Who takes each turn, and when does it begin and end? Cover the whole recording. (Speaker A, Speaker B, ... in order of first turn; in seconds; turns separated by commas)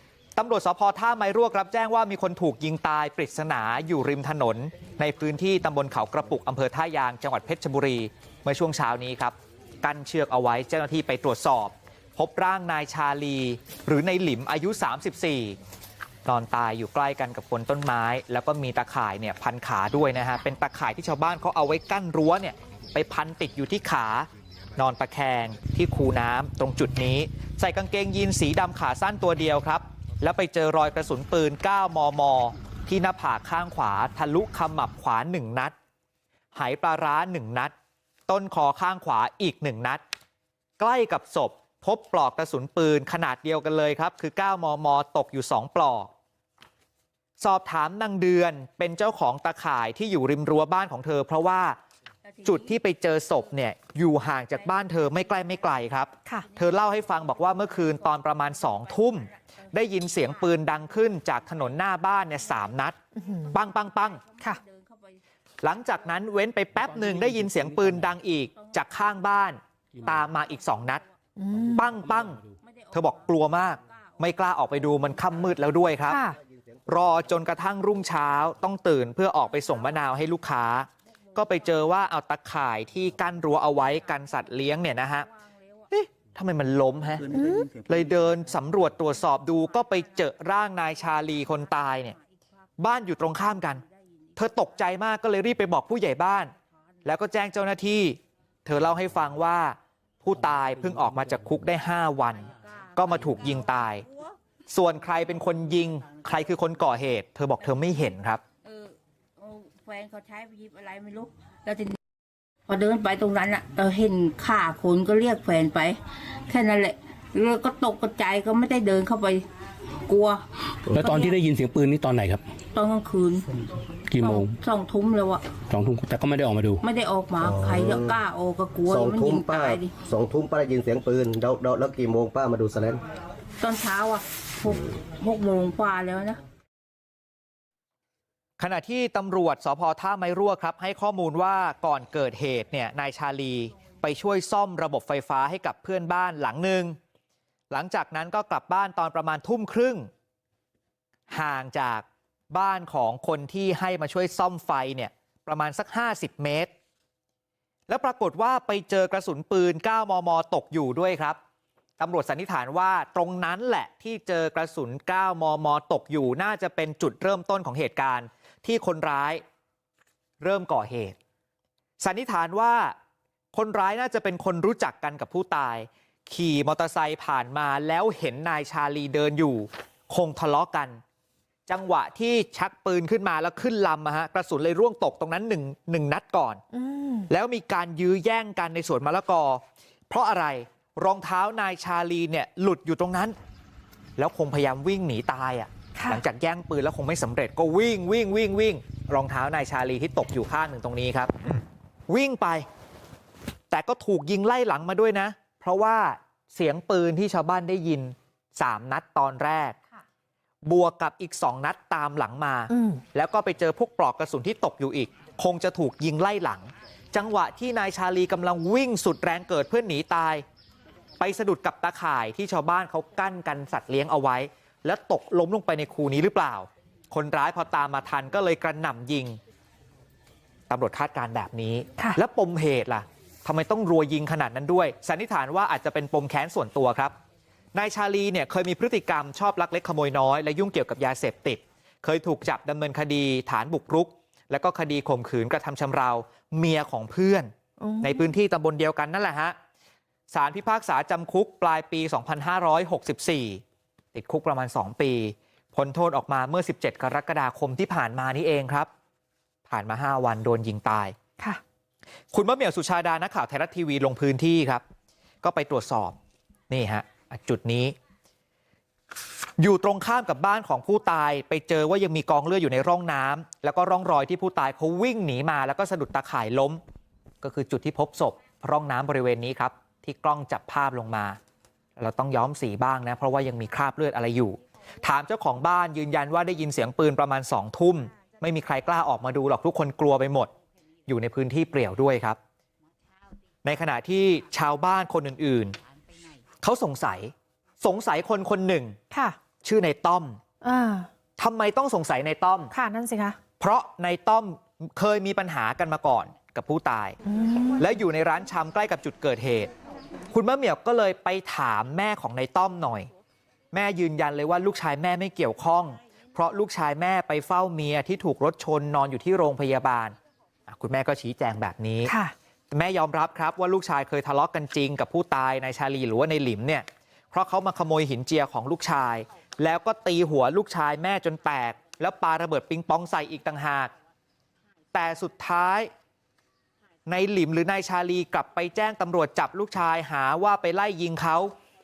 Speaker A: 0.4-15.6, Speaker A: 16.3-35.7, Speaker A: 36.5-37.7, Speaker A: 38.3-40.0, Speaker A: 40.8-46.1, Speaker A: 47.4-51.8, Speaker B: 52.3-52.7, Speaker A: 52.5-63.0, Speaker B: 54.5-55.8, Speaker B: 56.4-59.5, Speaker B: 60.2-60.6, Speaker C: 63.2-63.5, Speaker B: 63.3-65.2, Speaker A: 63.5-64.2, Speaker A: 65.6-71.0, Speaker B: 68.6-68.9, Speaker B: 70.5-71.0, Speaker C: 71.4-71.8, Speaker A: 71.7-72.4, Speaker B: 72.6-74.3, Speaker A: 72.9-76.2, Speaker C: 76.1-76.4, Speaker A: 76.9-85.3, Speaker B: 85.3-85.8, Speaker A: 85.9-92.2, Speaker C: 87.3-87.7, Speaker A: 92.8-93.8, Speaker A: 94.4-96.5, Speaker A: 97.0-102.5, Speaker A: 103.0-104.0, Speaker B: 103.0-103.6, Speaker A: 104.7-108.4, Speaker B: 108.7-112.0, Speaker B: 112.7-119.5, Speaker B: 120.1-121.4, Speaker D: 120.9-121.2, Speaker E: 121.0-122.4, Speaker B: 122.7-123.5, Speaker E: 124.2-124.4, Speaker B: 124.2-125.5, Speaker E: 125.7-126.6, Speaker B: 126.8-129.9, Speaker D: 127.4-128.2, Speaker D: 128.9-133.0, Speaker B: 133.6-136.4, Speaker A: 138.6-147.0, Speaker A: 147.7-150.1, Speaker A: 151.3-156.7, Speaker A: 157.9-161.4, Speaker A: 162.0-169.4, Speaker A: 170.4-171.2, Speaker A: 172.0-172.9, Speaker A: 173.5-181.0, Speaker A: 181.7-186.6, Speaker C: 186.7-187.3, Speaker A: 187.3-193.3, Speaker A: 194.2-202.7, Speaker A: 203.7-209.8, Speaker A: 210.7-220.4, Speaker C: 212.7-213.0, Speaker A: 221.2-229.4, Speaker A: 230.7-237.2, Speaker A: 237.8-249.6, Speaker C: 247.8-248.2, Speaker A: 250.3-253.6, Speaker A: 254.1-258.9, Speaker A: 259.7-261.2, Speaker A: 262.3-264.8, Speaker A: 265.4-266.2, Speaker A: 266.7-267.9, Speaker A: 269.6-276.8, Speaker A: 277.4-281.4, Speaker A: 282.0-290.5, Speaker A: 291.1-292.4, Speaker A: 293.6-295.8, Speaker A: 296.6-299.0, Speaker C: 299.1-299.4, Speaker A: 299.6-300.4, Speaker C: 300.6-301.1, Speaker A: 301.4-302.7, Speaker C: 302.7-303.4, Speaker A: 303.6-307.2, Speaker C: 307.3-307.9, Speaker A: 307.8-309.7, Speaker A: 310.3-313.1, Speaker A: 313.7-320.1, Speaker A: 320.7-322.1, Speaker C: 322.1-322.3, Speaker A: 322.7-333.9, Speaker A: 334.9-335.9, Speaker A: 337.1-341.5